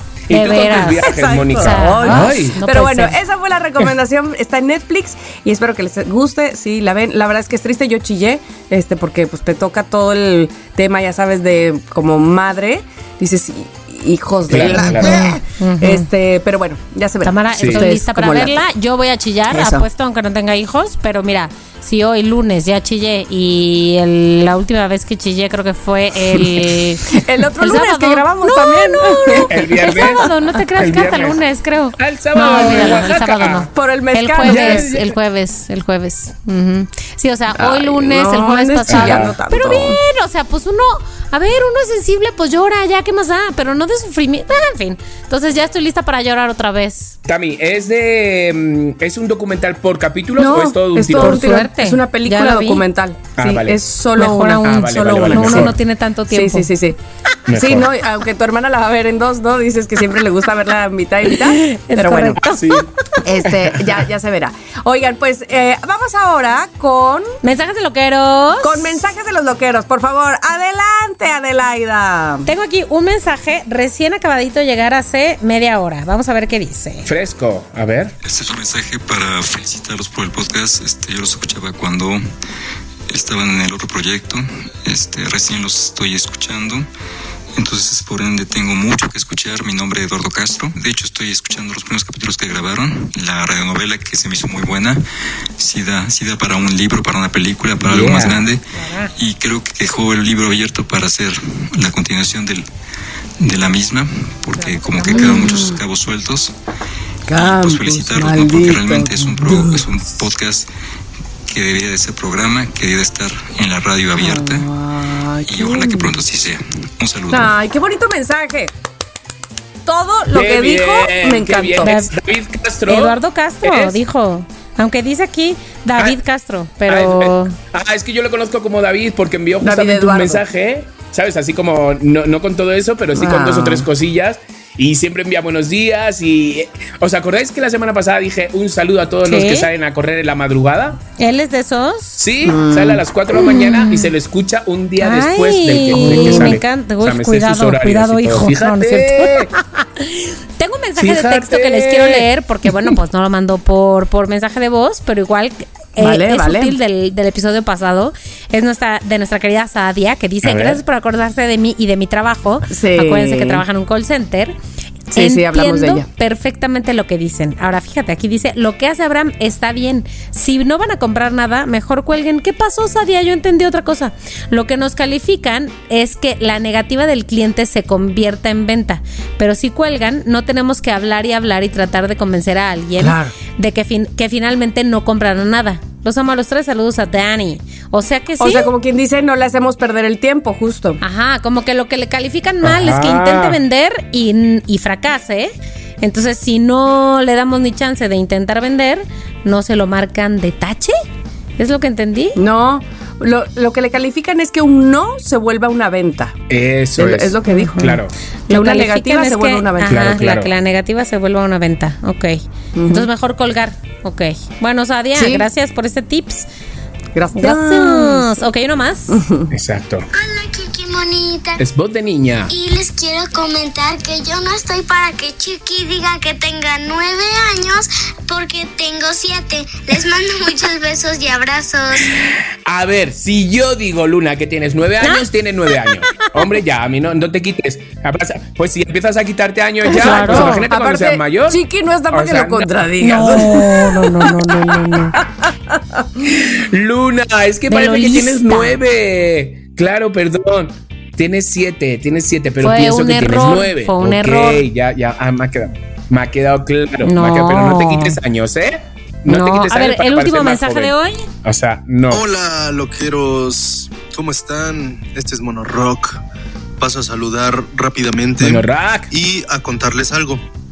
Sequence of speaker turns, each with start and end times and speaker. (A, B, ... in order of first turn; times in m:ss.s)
0:00.3-0:02.6 A
0:00.3-0:03.1 B
0:01.0-0:18.6 C
0:14.5-0:15.4 A
0:15.0-0:16.0 B
0:17.2-0:27.1 B
0:17.6-0:17.8 A
0:19.5-0:19.8 C
0:27.1-0:30.2 C
0:27.6-0:47.2 B
0:29.4-0:31.4 A
0:32.0-0:33.7 A
0:33.7-0:34.9 C
0:34.4-0:35.2 A
0:37.5-0:40.0 C
0:38.9-0:39.4 A
0:47.2-0:51.4 A
0:50.4-0:55.8 C
0:51.2-0:52.8 B
0:53.4-0:53.8 A
0:54.2-0:56.7 B
0:54.6-0:55.7 A
0:56.3-0:57.0 C
0:57.5-0:57.9 A
0:57.5-1:02.4 C
1:01.3-1:02.8 B
1:02.4-1:04.0 A
1:03.2-1:07.3 C
1:07.4-1:08.9 B
1:08.6-1:12.4 C
1:12.4-1:17.1 B
1:17.0-1:18.1 A
1:18.2-1:22.2 D
1:23.1-1:26.8 D
1:27.6-1:35.0 D
1:35.6-1:42.6 D
1:43.4-1:46.5 D
1:45.0-1:45.8 C
1:47.3-1:49.8 C
1:47.3-1:50.7 D
1:51.5-1:54.7 D
1:54.1-1:56.1 C
1:55.4-1:57.5 D
1:57.3-1:58.7 C
1:59.8-2:01.9 C
2:00.3-2:04.0 A
2:01.8-2:02.1 B
2:02.9-2:07.5 B
2:06.8-2:21.0 A
2:09.6-2:10.4 C
2:13.2-2:13.9 C
2:19.2-2:19.7 B
2:21.2-2:22.2 B
2:22.2-2:29.5 A
2:22.4-2:23.0 C
2:23.4-2:24.1 B
2:25.0-2:44.6 B
2:25.9-2:26.5 C
2:31.0-2:32.9 A
2:36.0-2:36.7 C
2:40.4-2:40.8 A
2:42.7-2:43.6 C
2:45.1-2:46.0 C
2:45.1-3:08.7 B
3:03.0-3:03.3 A
3:08.4-3:11.0 C
3:11.0-3:20.9 B
3:12.6-3:13.6 A
3:21.6-3:22.4 B
3:22.4-3:26.4 C
3:26.5-3:28.1 A
3:27.0-3:27.9 C
3:27.4-3:36.5 B
3:28.5-3:30.0 C
3:29.8-3:30.5 A
3:32.8-3:33.1 C
3:35.1-3:35.4 C
3:37.1-3:38.4 C
3:37.4-3:39.2 B
3:39.1-3:39.5 C
3:39.5-3:40.1 A
3:40.1-3:41.6 E
3:41.6-3:42.5 A
3:42.5-3:52.1 E
3:52.6-4:01.6 A
3:55.0-3:55.3 B
3:55.8-3:56.3 B
3:59.9-4:06.0 C
4:00.0-4:00.6 B
4:02.1-4:02.7 A
4:03.0-4:05.2 B
4:06.2-4:22.2 A
4:07.7-4:08.8 B
4:12.6-4:14.6 B
4:17.0-4:18.2 B
4:19.3-4:21.3 B
4:22.1-4:26.2 F
4:26.8-4:30.4 F
4:28.4-4:29.1 A